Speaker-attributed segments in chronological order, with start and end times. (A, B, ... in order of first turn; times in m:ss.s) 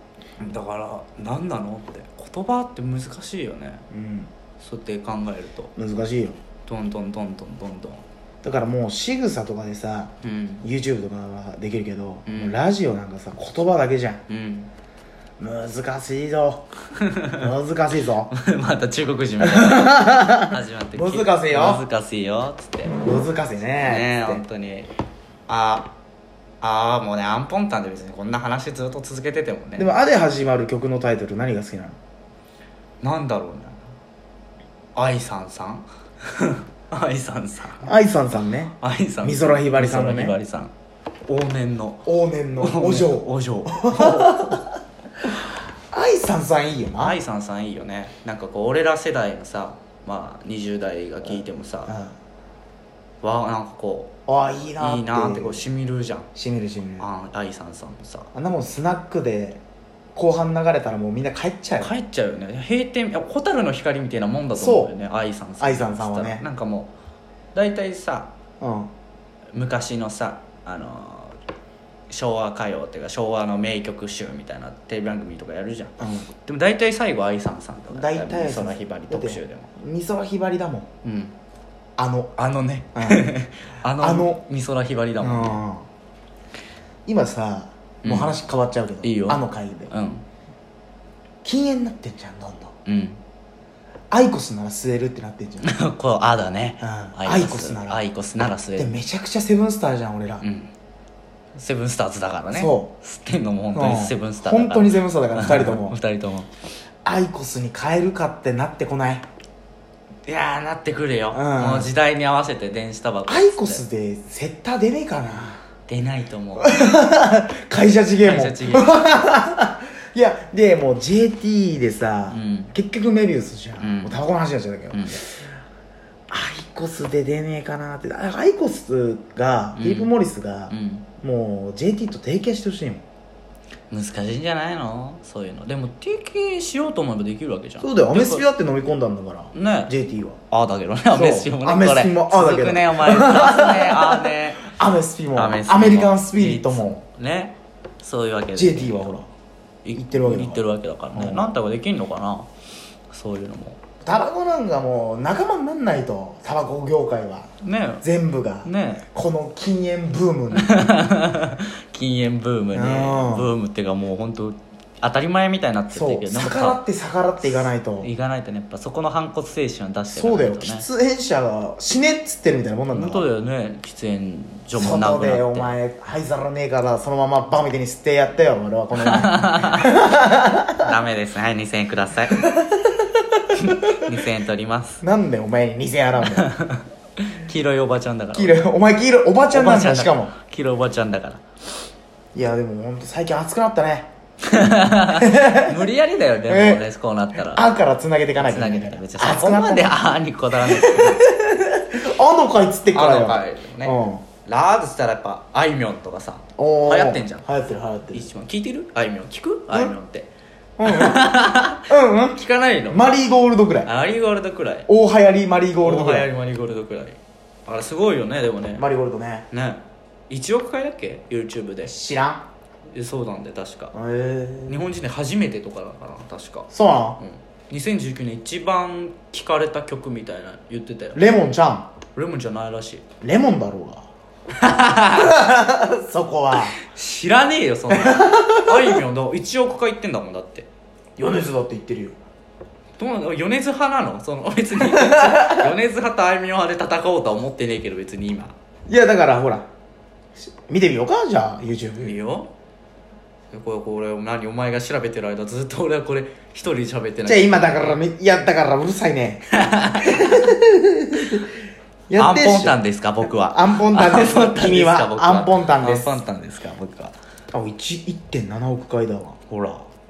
0:00.4-0:03.8 A
0:03.9-0:04.3 B
0:04.6-0:05.7 A
0:05.8-0:06.4 B
0:06.7-0:08.0 A
0:08.4-0:10.1 B
0:10.2-0:10.7 A
0:10.6-0:14.2 B
0:12.3-0:12.6 A
0:14.3-0:14.7 A
0:15.4-0:16.6 B
0:17.0-0:17.4 A
0:17.4-0:18.3 B
0:18.3-0:23.0 A
0:19.4-0:21.8 B
0:23.0-0:24.4 B
0:23.8-0:24.9 A
0:25.5-0:25.9 A
0:26.6-0:29.9 A
0:29.8-0:32.0 B
0:33.0-0:33.8 A
0:35.0-0:37.9 A
0:37.8-0:40.4 B
0:38.8-0:40.7 A
0:41.3-0:44.7 A
0:42.1-0:44.6 B
0:45.9-0:47.2 B
0:47.0-0:52.0 A
0:51.9-0:52.1 B
0:53.2-0:54.2 A
0:54.3-0:55.7 B
0:54.8-0:56.3 A
0:56.4-0:57.1 B
0:57.0-0:58.3 A
0:58.3-0:59.6 B
1:00.2-1:01.9 B
1:01.8-1:06.9 A
1:04.6-1:04.9 B
1:05.6-1:06.4 B
1:07.5-1:08.3 A
1:08.6-1:08.9 B
1:09.5-1:11.4 A
1:12.1-1:19.7 A
1:16.0-1:16.3 B
1:17.9-1:20.9 B
1:21.0-1:21.3 A
1:22.0-1:22.4 B
1:22.4-1:25.6 A
1:23.0-1:23.3 B
1:24.0-1:24.4 B
1:25.2-1:25.9 B
1:27.1-1:29.9 B
1:28.0-1:28.4 A
1:29.0-1:30.2 A
1:31.4-1:32.7 B
1:32.9-1:33.2 A
1:34.1-1:35.7 B
1:35.6-1:39.0 A
1:36.8-1:38.0 B
1:38.8-1:40.4 B
1:40.4-1:40.7 A
1:41.6-1:46.5 A
1:42.5-1:42.9 B
1:43.7-1:46.0 B
1:47.0-1:49.3 B
1:50.3-1:53.8 A
1:51.3-1:51.9 B
1:53.3-1:55.6 B
1:55.9-1:56.8 A
1:56.6-2:05.5 B
1:58.2-1:59.0 A
2:02.3-2:02.7 A
2:03.8-2:04.2 A
2:04.9-2:05.2 A
2:06.3-2:13.0 B
2:09.8-2:10.1 A
2:10.7-2:11.1 A
2:13.9-2:18.5 A
2:17.8-2:20.4 B
2:19.5-2:19.9 A
2:20.5-2:24.7 A
2:21.1-2:27.0 B
2:25.4-2:29.2 A
2:28.5-2:29.3 B
2:29.8-2:32.5 A
2:29.9-2:31.6 B
2:33.1-2:33.8 A
2:34.0-2:37.5 B
2:37.6-2:38.0 A
2:38.0-2:40.8 B
2:38.6-2:39.1 A
2:40.5-2:46.8 A
2:42.7-2:43.5 B
2:45.9-2:48.1 B
2:47.4-2:50.9 A
2:50.1-2:53.3 B
2:52.9-2:55.8 A
2:54.7-3:00.9 B
2:59.0-2:59.9 A
3:00.8-3:02.5 A
3:02.3-3:04.1 B
3:03.6-3:05.0 A
3:05.0-3:06.5 B
3:06.4-3:08.6 A
3:08.3-3:10.3 B
3:09.5-3:11.4 A
3:12.3-3:14.1 B
3:14.5-3:17.7 A
3:15.1-3:15.9 B
3:16.5-3:16.8 B
3:17.4-3:20.0 B
3:18.4-3:21.3 A
3:20.6-3:24.2 B
3:22.9-3:27.5 A
3:26.6-3:28.3 B
3:28.1-3:30.3 A
3:29.7-3:30.0 B
3:30.8-3:33.9 B
3:30.9-3:33.0 A
3:33.8-3:34.9 A
3:34.9-3:36.3 B
3:35.8-3:38.9 A
3:38.8-3:39.5 B
3:39.5-3:42.0 A
3:41.8-3:42.5 B
3:42.9-3:43.9 A
3:43.9-3:44.8 B
3:44.7-3:51.3 A
3:46.7-3:47.2 B
3:51.2-3:51.9 B
3:52.2-3:53.0 A
3:53.2-3:54.1 B
3:54.6-3:55.4 A
3:55.1-3:56.8 B
3:56.8-4:00.7 A
3:57.9-3:59.0 B
4:01.2-4:02.2 B
4:03.0-4:08.6 A
4:04.8-4:05.7 B
4:08.9-4:09.7 B
4:10.4-4:12.2 B
4:12.0-4:12.5 A
4:13.5-4:18.0 A
4:17.2-4:21.5 B
4:19.6-4:20.5 A
4:22.1-4:22.8 B
4:22.2-4:27.2 A
4:23.4-4:26.2 B
4:27.5-4:29.4 B
4:29.5-4:29.9 A